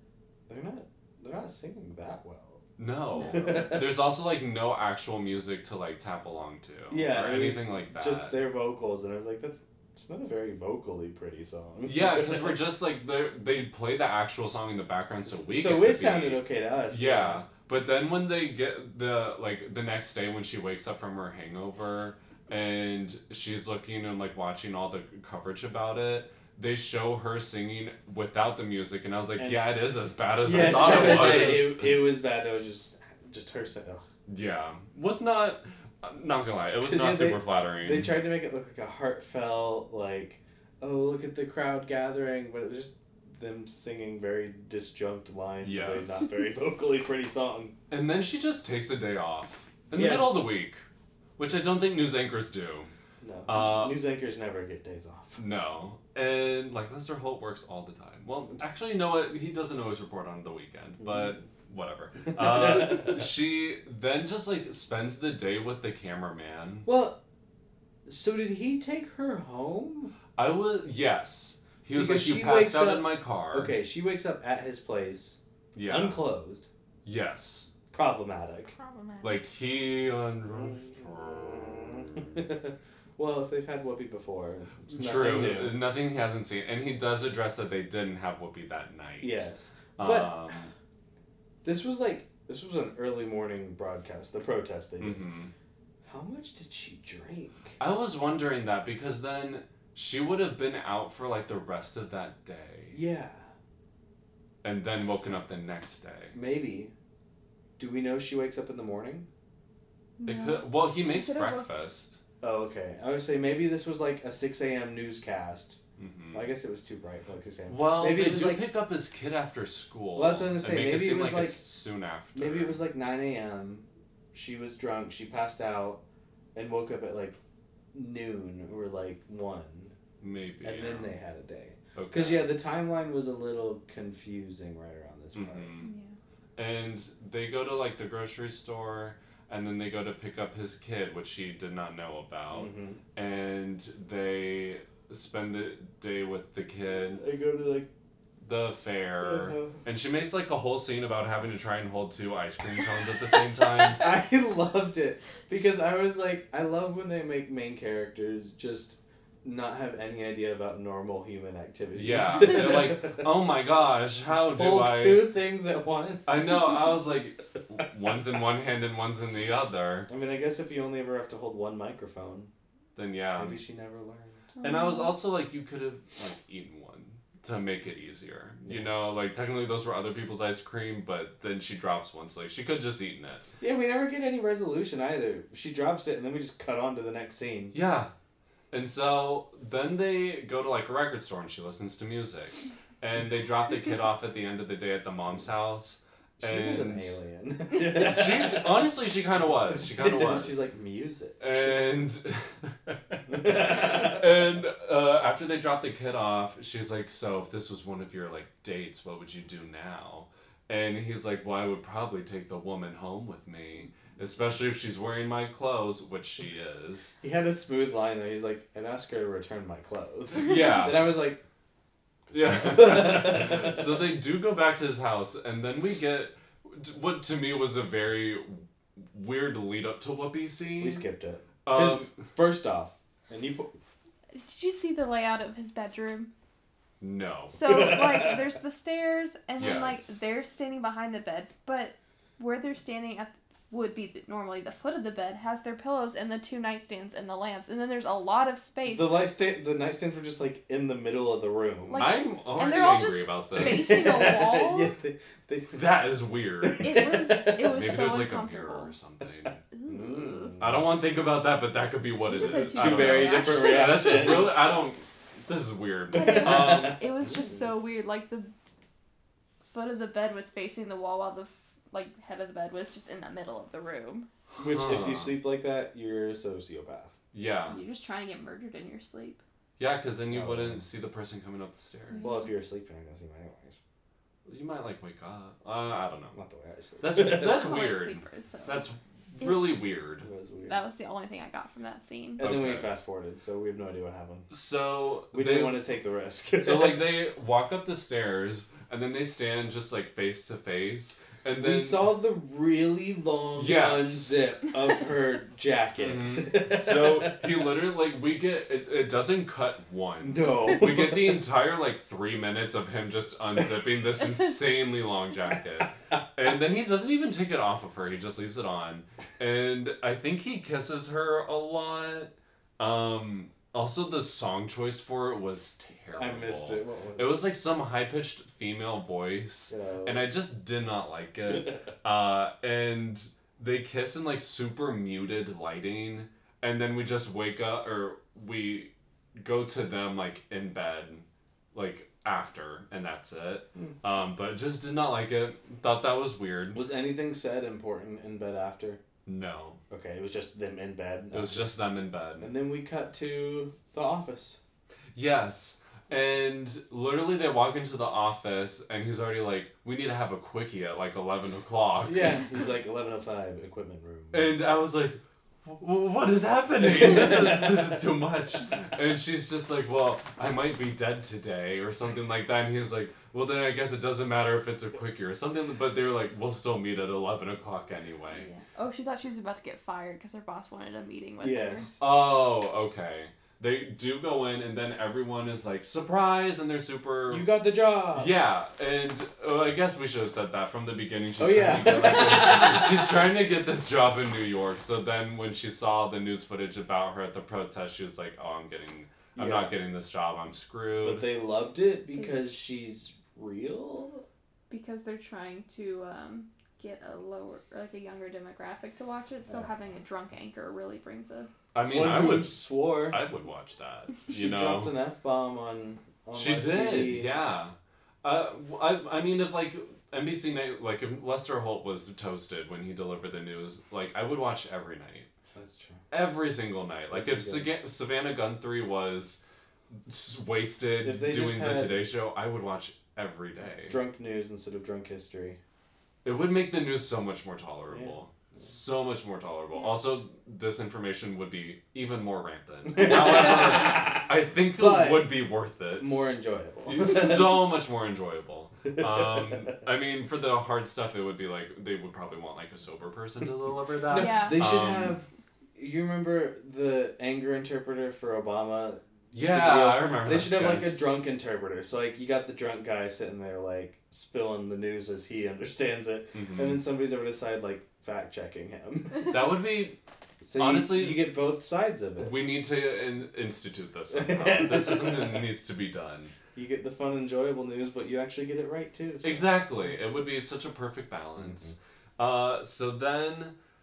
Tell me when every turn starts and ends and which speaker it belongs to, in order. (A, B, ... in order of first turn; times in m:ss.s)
0:00.5-0:02.6 A
0:02.8-0:08.4 B
0:03.2-0:03.9 A
0:06.9-0:12.6 A
0:11.8-0:32.0 B
0:15.2-0:17.4 A
0:29.4-0:29.7 A
0:30.4-0:34.0 A
0:34.3-0:38.2 B
0:36.8-0:47.7 A
0:45.6-0:46.3 B
0:47.9-0:50.8 B
0:49.9-0:50.5 A
0:51.4-0:52.9 B
0:53.2-0:55.4 A
0:53.4-0:54.0 B
0:55.4-1:06.9 B
1:01.0-1:01.3 A
1:02.4-1:03.1 A
1:06.8-1:07.2 A
1:08.0-1:10.1 A
1:10.4-1:13.7 B
1:11.9-1:16.6 A
1:15.7-1:16.2 B
1:17.0-1:17.7 B
1:17.9-1:18.7 A
1:18.7-1:19.4 C
1:19.2-1:22.4 B
1:20.5-1:25.8 A
1:24.9-1:30.7 B
1:29.2-1:30.5 A
1:31.6-1:35.2 A
1:35.0-1:35.5 B
1:36.0-1:37.8 A
1:37.8-1:43.0 B
1:42.9-1:43.5 A
1:44.6-1:46.4 B
1:46.3-1:46.9 A
1:47.8-1:49.3 A
1:50.2-1:51.7 C
1:50.2-1:52.2 B
1:52.4-1:55.8 A
1:56.0-1:56.5 B
1:56.3-1:58.6 A
1:57.7-2:02.8 B
2:00.1-2:01.6 A
2:02.3-2:06.0 A
2:06.5-2:07.4 A
2:07.9-2:09.9 A
2:10.2-2:11.1 B
2:10.6-2:15.7 A
2:11.9-2:12.5 B
2:15.3-2:15.9 B
2:15.8-2:16.1 C
2:16.6-2:27.2 B
2:22.5-2:23.0 A
2:26.9-2:27.9 A
2:28.4-2:34.0 B
2:29.2-2:29.8 A
2:33.8-2:43.3 A
2:41.9-2:45.3 B
2:44.5-2:46.6 A
2:46.2-2:50.1 B
2:50.1-2:52.5 A
2:52.9-2:53.6 B
2:53.4-2:54.4 A
2:54.6-2:55.1 C
2:54.6-3:03.5 B
2:58.6-2:59.1 A
3:03.6-3:07.7 A
3:07.7-3:08.1 B
3:08.7-3:17.2 B
3:16.4-3:18.9 A
3:17.7-3:20.6 B
3:19.7-3:21.9 A
3:21.4-3:37.2 B
3:23.3-3:24.2 A
3:37.2-3:41.4 A
3:40.4-3:41.1 B
3:42.3-3:51.1 B
3:42.4-3:43.9 A
3:50.8-3:53.7 A
3:51.6-3:52.2 B
3:54.3-3:56.3 C
3:57.0-3:57.7 B
3:57.5-4:09.2 C
3:57.6-3:58.4 A
3:59.6-4:00.1 B
4:08.8-4:12.1 A
4:11.9-4:14.9 C
4:12.0-4:14.1 B
4:13.6-4:15.9 A
4:15.7-4:19.6 B
4:16.6-4:18.1 A
4:16.8-4:18.9 C
4:19.7-4:20.6 C
4:19.9-4:20.9 A
4:20.6-4:27.1 B
4:22.3-4:24.7 C
4:22.4-4:24.6 A
4:26.1-4:28.5 C
4:26.2-4:27.5 A
4:29.6-4:34.3 C
4:34.5-4:35.3 B
4:34.6-4:37.2 A
4:37.3-4:37.8 B
4:37.7-4:39.4 C
4:39.8-4:42.3 B
4:40.3-4:40.8 A
4:42.1-4:42.5 C
4:42.2-4:43.8 A
4:44.4-4:46.4 B
4:46.3-4:47.6 A
4:47.0-4:50.3 B
4:47.3-4:48.8 C
4:50.2-4:50.8 A
4:50.7-4:52.4 C
4:52.4-4:54.5 A
4:52.4-4:52.9 B
4:54.5-4:55.8 B
4:55.3-4:57.0 A
4:56.6-5:02.1 B
5:01.6-5:07.5 A
5:03.5-5:04.6 B
5:06.0-5:46.8 B
5:10.2-5:11.4 A
5:26.1-5:27.4 A
5:29.7-5:30.2 A
5:46.7-5:49.0 A
5:49.2-5:49.8 B
5:49.9-5:51.7 A
5:51.3-5:52.5 B
5:52.4-5:54.6 A
5:55.1-6:02.4 B
6:02.0-6:04.5 A
6:04.3-6:18.5 B
6:06.8-6:08.0 A
6:18.3-6:21.9 C
6:21.4-6:22.0 A
6:22.0-6:27.5 B
6:27.3-6:28.3 A
6:28.1-6:41.3 B
6:31.4-6:33.2 A
6:39.3-6:39.8 A
6:41.0-6:44.2 A
6:42.1-6:42.4 C
6:44.7-6:51.5 C
6:51.7-6:55.0 B
6:51.9-6:53.2 A
6:54.3-6:57.3 A
6:56.3-7:05.3 B
7:05.5-7:06.0 A
7:06.1-7:09.4 B
7:07.1-7:07.7 A
7:10.0-7:14.0 B
7:11.0-7:12.0 A
7:13.9-7:15.6 A
7:16.2-7:26.3 B
7:22.9-7:25.4 A
7:26.0-7:27.5 A
7:26.8-7:35.2 B
7:29.2-7:29.6 A
7:34.0-7:49.4 A
7:34.1-7:34.6 C
7:39.3-7:41.0 B
7:46.3-7:46.8 B
7:49.3-7:50.0 B
7:50.4-7:52.3 A
7:50.5-7:51.2 B
7:52.2-7:56.3 B
7:54.1-7:55.4 A
7:56.5-7:59.4 A
7:59.2-8:03.5 B